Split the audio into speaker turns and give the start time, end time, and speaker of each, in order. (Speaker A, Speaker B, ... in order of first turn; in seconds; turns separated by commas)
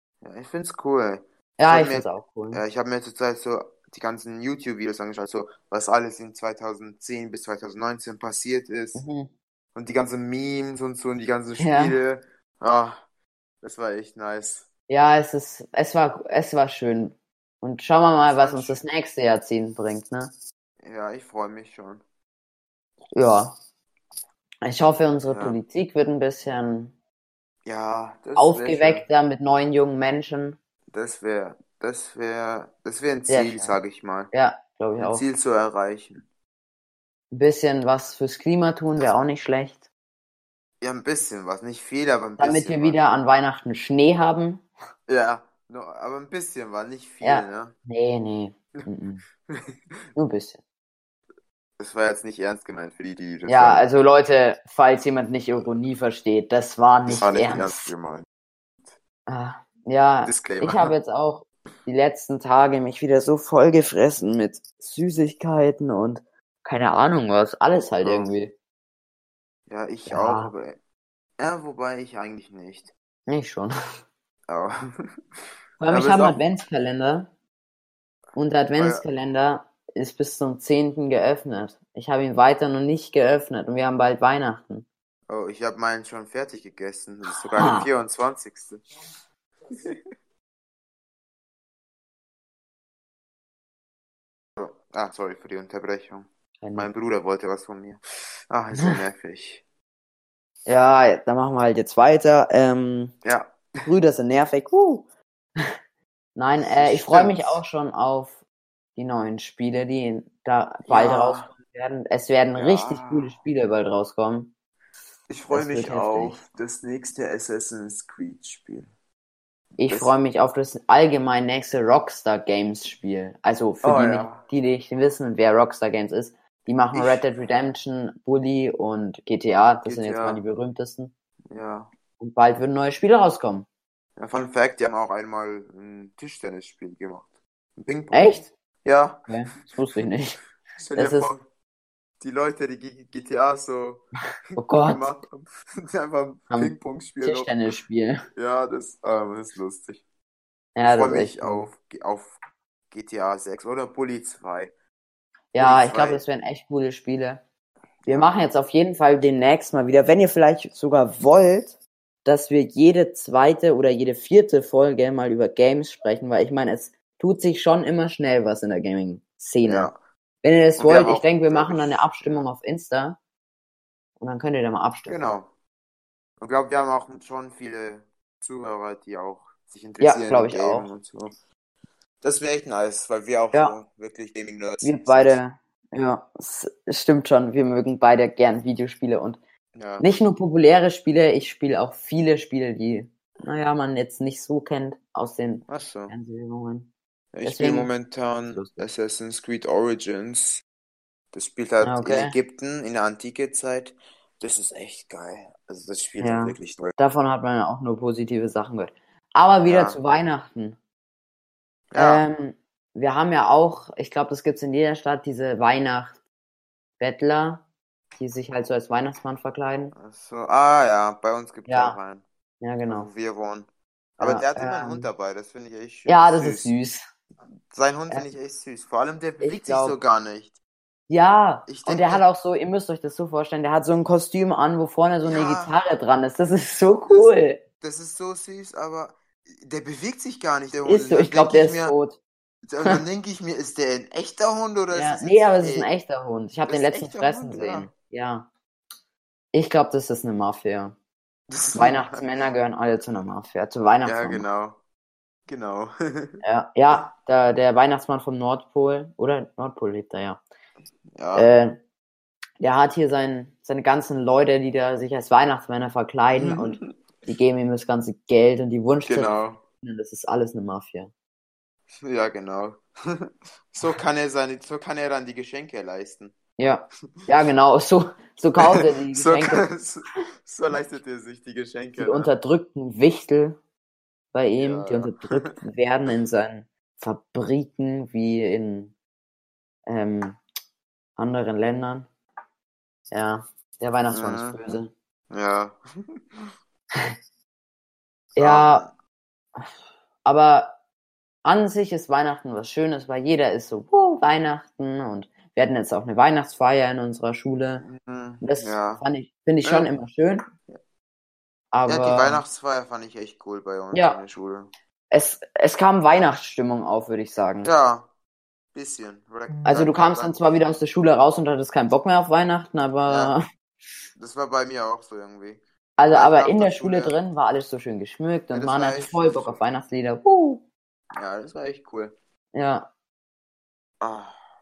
Speaker A: 0.2-9.0, Speaker B: 1.6-2.6, Speaker B: 9.0-9.3, Speaker A: 9.8-13.0, Speaker B: 11.6-12.0, Speaker A: 13.6-14.7, Speaker B: 14.9-20.3, Speaker A: 18.2-18.8, Speaker A: 20.8-22.0, Speaker B: 23.1-23.5, Speaker B: 24.6-26.9, Speaker A: 25.3-25.6, Speaker A: 27.6-29.1, Speaker B: 28.4-30.6, Speaker A: 30.9-34.3, Speaker B: 33.3-33.8, Speaker B: 34.3-35.3, Speaker A: 35.0-36.3, Speaker B: 37.3-39.9, Speaker A: 40.8-43.0, Speaker B: 42.4-44.7, Speaker A: 45.1-47.8, Speaker B: 47.2-49.2, Speaker A: 49.5-50.0, Speaker B: 50.2-50.6, Speaker A: 51.8-53.9, Speaker B: 53.5-57.9, Speaker A: 57.1-58.3, Speaker B: 59.3-68.5, Speaker A: 60.2-60.9, Speaker A: 68.0-68.3, Speaker A: 69.7-70.8, Speaker B: 70.1-70.5, Speaker A: 71.4-72.9, Speaker B: 73.3-73.7, Speaker A: 74.5-74.8, Speaker B: 75.8-77.3, Speaker A: 75.9-76.4, Speaker B: 78.4-84.9, Speaker A: 78.8-79.0, Speaker A: 85.3-88.8, Speaker B: 87.5-87.9, Speaker A: 89.7-90.0, Speaker A: 94.6-99.7, Speaker B: 96.6-96.9, Speaker B: 100.7-103.2, Speaker A: 103.2-103.6, Speaker B: 103.9-105.1, Speaker B: 106.4-108.4, Speaker A: 106.6-107.6, Speaker B: 109.0-114.5, Speaker A: 110.9-111.5, Speaker A: 112.5-113.4, Speaker A: 115.3-118.9, Speaker B: 115.5-116.4, Speaker B: 119.8-131.1, Speaker A: 119.9-120.1, Speaker A: 123.8-124.4, Speaker A: 126.9-127.2, Speaker A: 129.8-130.4, Speaker A: 131.5-131.9, Speaker B: 132.2-133.7, Speaker A: 134.2-139.3, Speaker B: 138.1-138.5, Speaker B: 139.3-140.4, Speaker A: 140.8-141.5, Speaker B: 141.0-141.3, Speaker A: 142.2-147.5, Speaker B: 144.6-145.0, Speaker B: 146.5-148.2, Speaker A: 148.3-150.0, Speaker B: 150.8-151.7, Speaker A: 150.8-152.4, Speaker A: 152.9-154.7, Speaker B: 155.5-157.4, Speaker A: 155.6-156.2, Speaker A: 158.1-158.3, Speaker B: 158.1-169.9, Speaker A: 169.6-170.0, Speaker B: 170.4-173.2, Speaker A: 170.8-172.5, Speaker B: 174.2-175.2, Speaker A: 175.1-175.5, Speaker A: 176.4-181.4, Speaker B: 180.0-180.9, Speaker A: 182.2-185.4, Speaker B: 184.8-189.4, Speaker A: 189.8-190.1, Speaker B: 190.0-196.9, Speaker A: 195.7-196.1, Speaker A: 197.3-200.6, Speaker B: 197.4-197.9, Speaker B: 198.5-198.8, Speaker A: 201.3-206.9, Speaker B: 201.8-202.3, Speaker B: 206.2-210.8, Speaker A: 209.7-210.0, Speaker A: 211.9-212.2, Speaker B: 212.0-216.2, Speaker B: 217.0-217.6, Speaker B: 218.2-219.9, Speaker A: 219.9-222.2, Speaker B: 221.7-222.0, Speaker B: 222.6-223.1, Speaker A: 222.8-226.7, Speaker B: 224.2-225.1, Speaker B: 226.1-227.1, Speaker A: 227.7-230.6, Speaker B: 229.4-230.0, Speaker B: 231.1-237.6, Speaker A: 231.7-232.2, Speaker A: 235.2-235.8, Speaker A: 237.1-242.0, Speaker B: 240.8-242.2, Speaker A: 242.7-245.9, Speaker B: 244.9-248.5, Speaker A: 246.7-247.9, Speaker B: 249.5-250.9, Speaker A: 251.5-252.3, Speaker B: 251.7-254.5, Speaker A: 254.0-254.8, Speaker A: 255.5-256.4, Speaker B: 256.4-260.4, Speaker A: 261.2-261.5, Speaker B: 261.3-261.8, Speaker B: 262.6-271.1, Speaker A: 266.3-266.9, Speaker A: 269.1-269.6, Speaker A: 272.0-276.4, Speaker B: 276.6-279.6, Speaker A: 278.6-282.3, Speaker B: 282.0-283.6, Speaker B: 284.3-288.9, Speaker A: 284.6-285.6, Speaker B: 289.9-290.4, Speaker B: 291.2-292.1, Speaker B: 293.1-294.9, Speaker A: 294.1-294.6, Speaker A: 295.3-296.5, Speaker B: 298.4-298.9, Speaker A: 298.4-298.9, Speaker B: 300.2-300.8, Speaker B: 301.4-307.9, Speaker A: 307.8-309.0, Speaker B: 308.4-310.4, Speaker A: 309.6-309.9, Speaker B: 311.7-312.4, Speaker A: 311.9-314.7, Speaker B: 313.9-314.2, Speaker B: 315.1-317.7, Speaker A: 317.6-318.1, Speaker A: 318.7-320.4, Speaker B: 319.7-323.4, Speaker A: 323.1-323.4, Speaker A: 324.2-327.1, Speaker B: 326.0-330.6, Speaker A: 328.5-329.6, Speaker A: 331.2-332.1, Speaker B: 332.5-332.9, Speaker A: 334.0-334.4